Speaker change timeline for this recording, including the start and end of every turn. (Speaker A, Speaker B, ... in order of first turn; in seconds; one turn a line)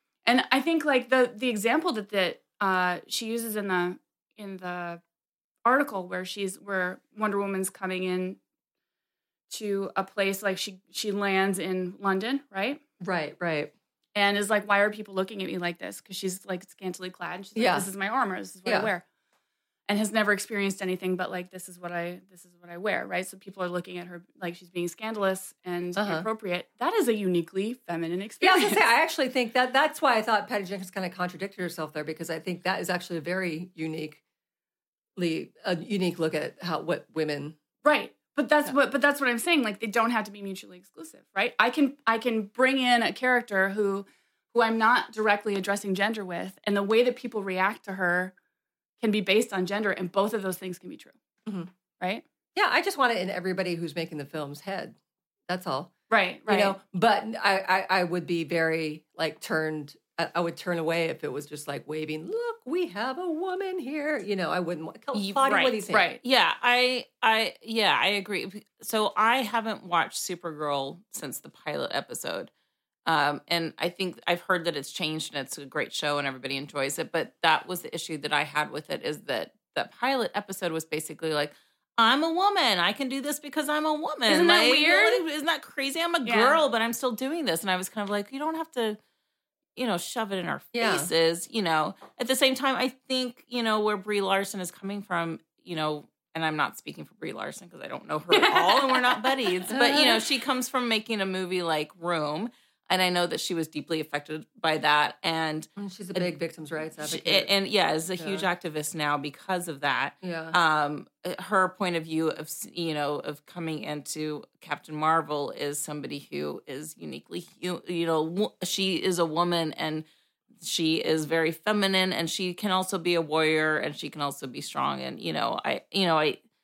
Speaker A: 0.2-5.0
Speaker A: 5.6-8.4
Speaker A: 9.5-12.8
Speaker B: 13.0-13.7
Speaker A: 14.1-19.0
Speaker B: 17.5-17.9
Speaker B: 18.6-18.9
Speaker A: 19.9-28.8
Speaker B: 25.9-26.2
Speaker B: 28.4-34.2
Speaker B: 35.1-37.5
Speaker A: 37.8-48.3
Speaker A: 49.0-51.1
Speaker A: 52.0-52.2
Speaker B: 52.5-55.0
Speaker B: 55.5-55.9
Speaker A: 56.1-56.8
Speaker B: 56.5-66.1
Speaker C: 65.1-72.5
Speaker A: 65.9-66.2
Speaker C: 73.0-89.0
Speaker A: 84.3-85.2
Speaker A: 86.2-86.6
Speaker C: 89.8-106.3
Speaker B: 90.7-91.1
Speaker A: 98.3-99.3
Speaker B: 99.7-100.2
Speaker B: 105.8-107.5
Speaker C: 107.0-120.0
Speaker B: 108.2-108.5
Speaker B: 110.2-110.6
Speaker C: 120.6-126.4